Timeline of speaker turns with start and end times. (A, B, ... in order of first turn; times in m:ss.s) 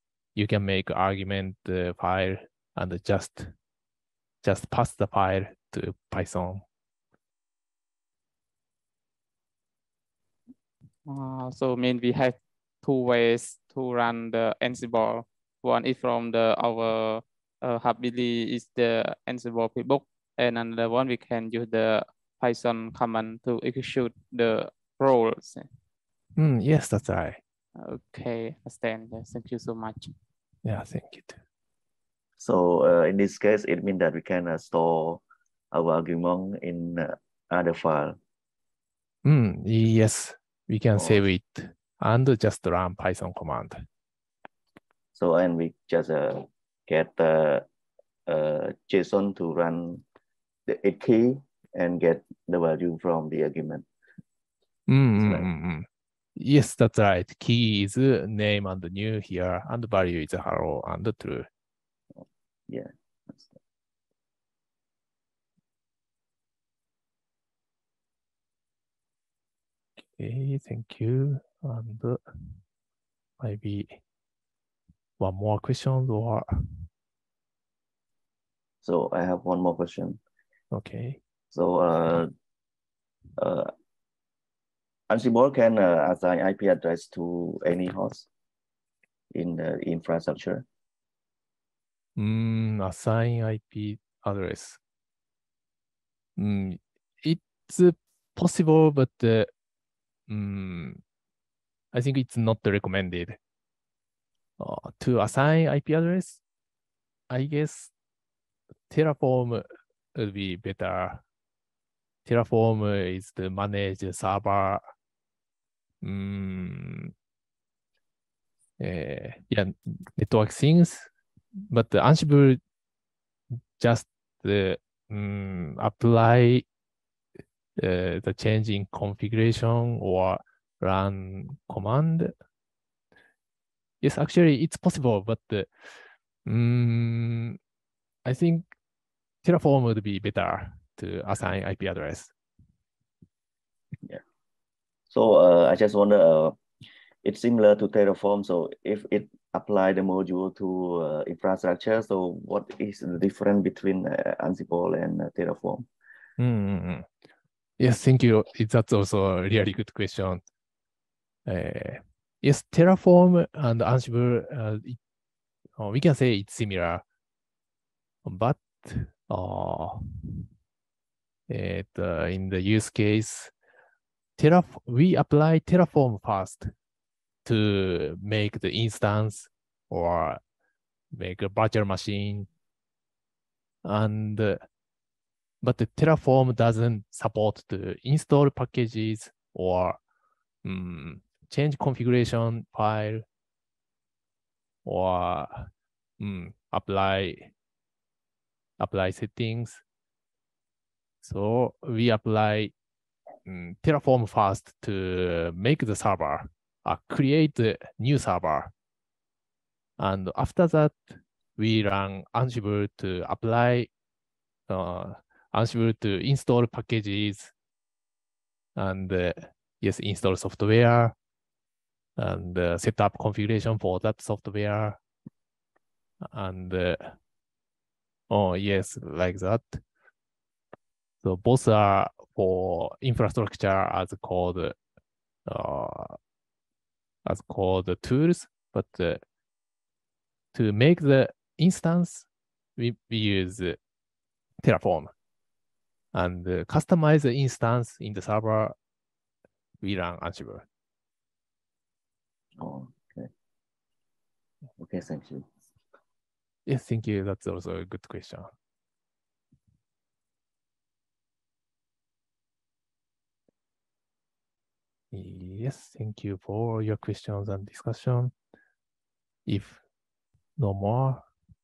0:00.4-0:03.5 A
0:04.4-0:06.6 A
0:11.1-0:25.7 B
0:26.4-0:27.4 A
0:27.8-0:30.1 B
0:30.6-0:31.4 A
0:32.4-0:38.2 C
0:39.2-0:43.8 A
0:41.0-0:41.2 C
0:45.1-0:47.6 C
0:48.3-0:50.0 C
0:50.7-0:53.8 C
0:54.9-1:01.5 A
0:55.2-0:55.5 C
1:02.7-1:03.5 C
1:10.2-1:12.2 A
1:13.4-1:14.0 A
1:15.2-1:16.5 A
1:18.8-1:20.2 C
1:20.7-1:21.2 A
1:21.5-1:22.3 C
1:23.4-1:23.7 C
1:25.1-1:28.3 C
1:29.3-1:30.6 C
1:32.2-1:34.8 A
1:36.4-1:39.5 A
1:40.3-1:41.0 A
1:41.9-1:43.4 A
1:44.6-1:46.4 A
1:47.3-1:47.9 A
1:48.9-1:49.6 A
1:50.1-1:51.2 A
1:52.2-1:54.8 A
1:56.0-1:57.1 A
1:58.8-2:01.1 A
2:01.7-2:02.6 A
2:03.8-2:06.6 A
2:07.8-2:12.3 A
2:14.0-2:15.9 A
2:16.4-2:17.6 A
2:18.2-2:18.6 A
2:19.4-2:22.3 A
2:25.1-2:26.6 C
2:27.2-2:35.8 C
2:36.4-2:37.1 A
2:37.8-2:40.4 A
2:41.5-2:45.0 A
2:45.8-2:47.0 A
2:48.2-2:50.0 A
2:51.5-2:53.5 A
2:54.4-2:56.7 A
2:57.4-3:00.4 A
3:01.1-3:02.5 A
3:03.8-3:04.6 A
3:05.6-3:10.0 A
3:10.6-3:13.2 A
3:14.8-3:17.5 A
3:18.8-3:19.8 A
3:21.2-3:22.7 A
3:23.4-3:28.7 A
3:30.0-3:33.9 A
3:34.7-3:37.5 A
3:38.8-3:41.1 A
3:42.2-3:45.0 A
3:46.3-3:47.1 A
3:48.3-3:49.8 A
3:51.2-3:54.8 A
3:55.4-3:56.2 A
3:57.2-3:59.2 A
4:00.5-4:03.8 A
4:04.6-4:05.1 A
4:06.1-4:08.7 A
4:09.8-4:10.6 A
4:12.6-4:13.3 C
4:14.8-4:15.5 C
4:16.7-4:18.5 A
4:25.1-4:28.3 A
4:29.4-4:29.8 A
4:30.6-4:31.3 A